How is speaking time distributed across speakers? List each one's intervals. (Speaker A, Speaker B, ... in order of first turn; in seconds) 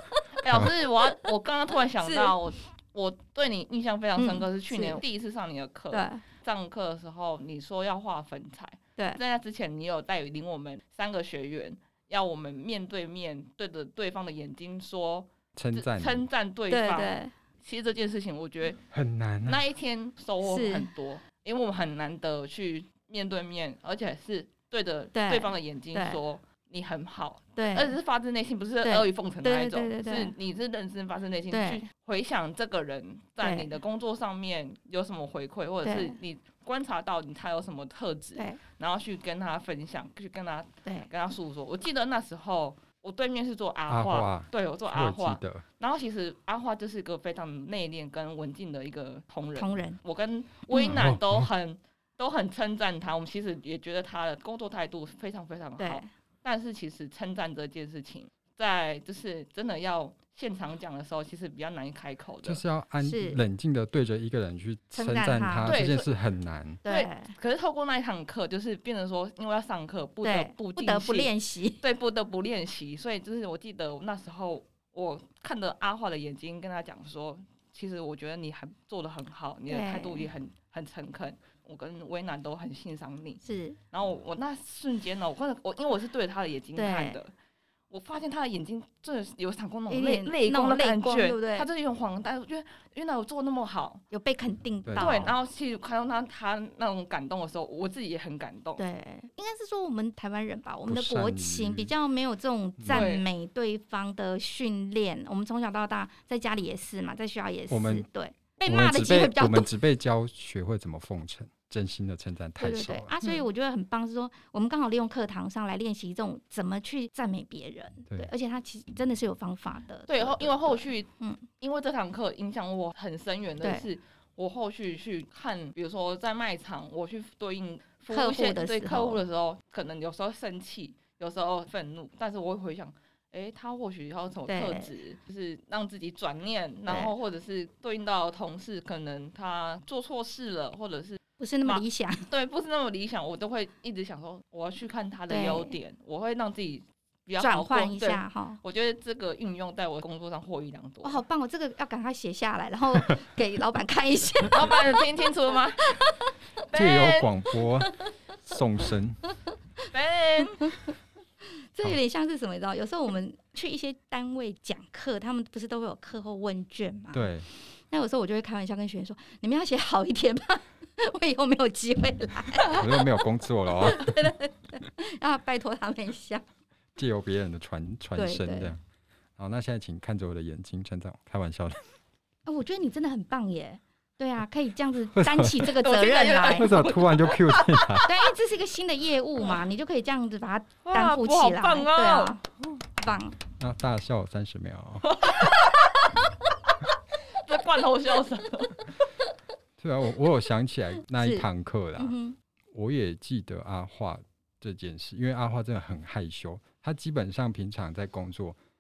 Speaker A: 0.4-18.8, 19.5-62.6, 65.7-66.1, 66.8-87.3, 87.9-94.0, 95.0-98.8, 102.9-103.3, 120.1-121.1, 121.6-151.2, 154.5-156.1, 156.7-157.3, 159.9-160.7, 185.7-188.1, 190.8-192.4, 195.0-196.3, 197.3-199.0
Speaker B: 2.0-2.4, 4.2-5.0, 5.9-6.2, 16.7-17.3, 20.4-20.9, 25.1-26.2, 27.6-28.0, 28.9-30.3, 31.5-31.8, 33.4-33.7, 35.8-36.2, 38.4-38.6, 49.6-50.0, 50.7-51.1, 55.8-56.1, 63.0-63.4, 64.9-65.8, 66.8-67.3, 70.2-71.8, 79.7-80.3, 83.4-83.8, 86.8-87.2, 89.9-91.7, 94.1-95.3, 98.8-109.7, 112.6-121.4, 123.6-123.9, 128.1-129.2, 134.5-134.9, 136.9-137.1, 141.4-142.3, 145.3-145.7, 147.4-148.6, 151.0-155.1, 155.9-156.3, 161.5-167.3, 167.9-173.1, 173.7-176.5, 178.2-178.8, 182.5-186.7, 188.0-193.4, 201.2-201.5, 202.0-202.4
Speaker C: 15.6-16.2, 18.9-19.6, 43.9-45.6, 50.9-51.5, 62.4-66.8, 94.8-95.3, 100.9-101.9, 102.8-103.1, 107.7-108.0, 108.7-113.1, 156.7-159.2, 167.1-167.5, 172.7-174.3, 177.0-178.8, 179.4-181.9, 185.1-185.7, 186.5-188.1, 193.6-195.2, 199.8-202.2, 202.7-208.6